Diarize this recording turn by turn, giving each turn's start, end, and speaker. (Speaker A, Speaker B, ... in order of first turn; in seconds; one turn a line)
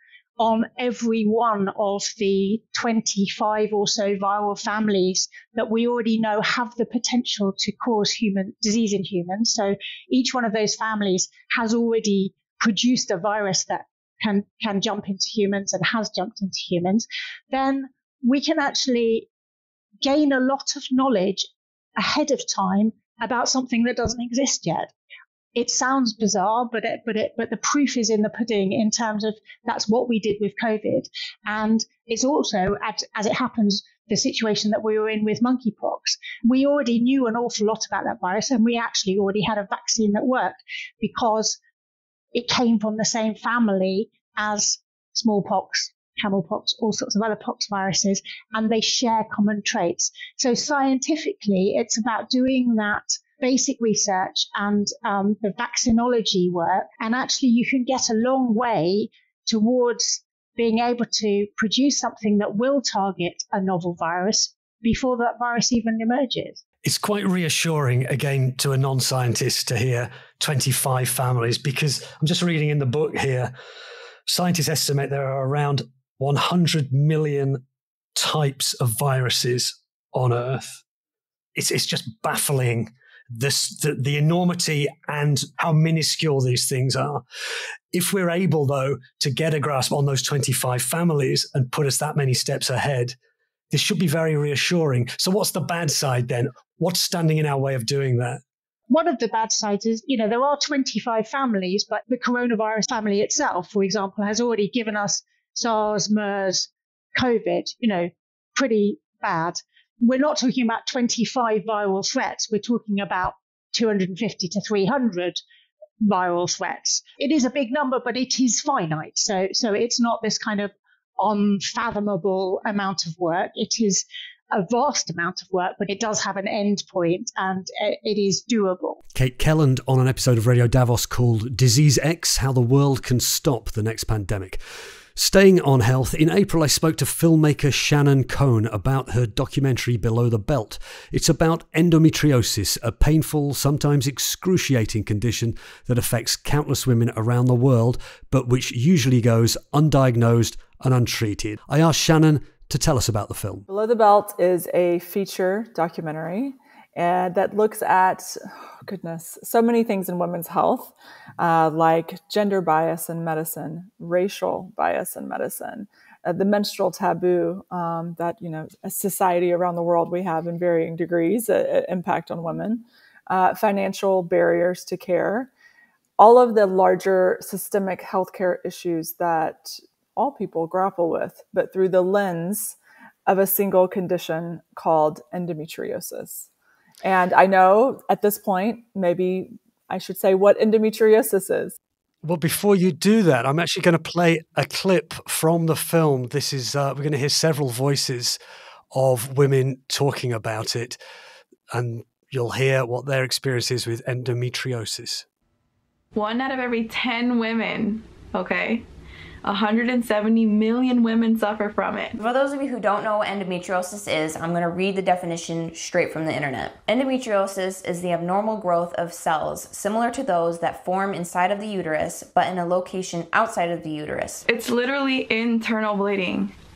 Speaker A: 0.4-19.3
Speaker A: 20.0-24.9
Speaker A: 25.5-41.6
Speaker A: 42.3-66.6
Speaker B: 66.8-73.5
Speaker B: 74.3-77.6
Speaker B: 78.1-80.8
Speaker B: 81.5-87.2
Speaker B: 87.9-93.1
Speaker B: 93.7-98.4
Speaker A: 98.9-115.4
Speaker A: 116.0-129.0
Speaker B: 129.1-134.6
Speaker B: 135.2-153.7
Speaker C: 153.7-175.5
Speaker C: 176.2-182.8
Speaker C: 183.3-186.5
Speaker C: 187.0-191.8
Speaker B: 192.2-198.4
Speaker B: 198.9-201.0
Speaker B: 201.7-205.2
Speaker D: 206.1-208.8
Speaker D: 209.4-212.2
Speaker E: 212.2-224.4
Speaker D: 224.4-226.5